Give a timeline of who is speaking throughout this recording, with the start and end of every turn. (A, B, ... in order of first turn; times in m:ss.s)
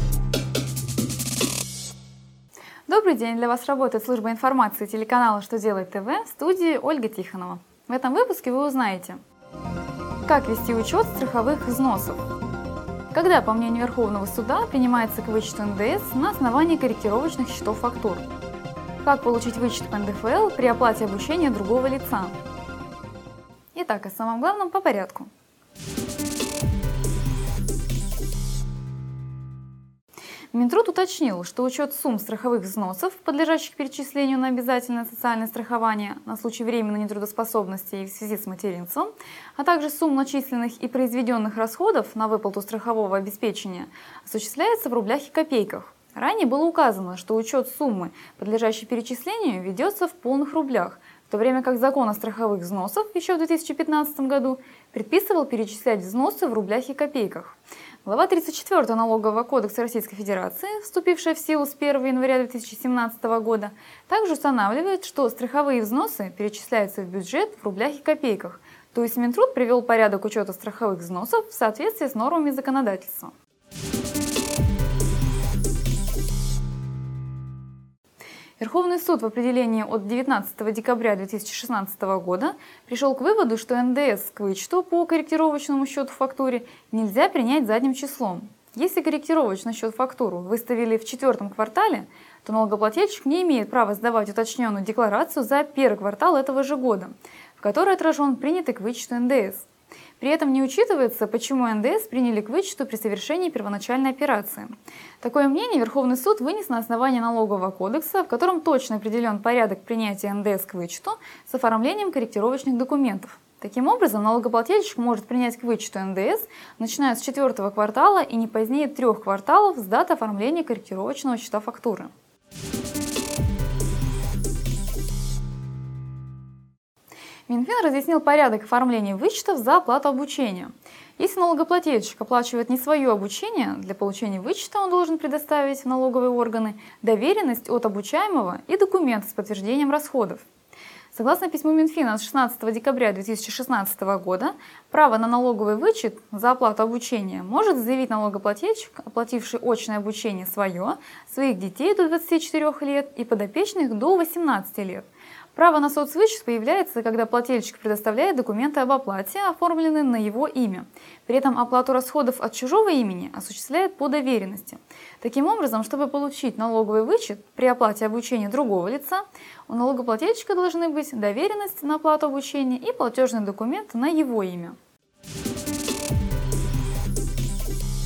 0:02.9-0:09.2 A
0:10.2-0:12.2 A
0:13.1-0:18.3 A
0:19.0-0:22.4 A
0:23.7-0:25.3 A
0:30.5-1:13.3 A
1:18.6-1:39.7 A
1:40.2-2:02.1 A
2:07.5-2:20.4 A
2:21.1-2:54.8 A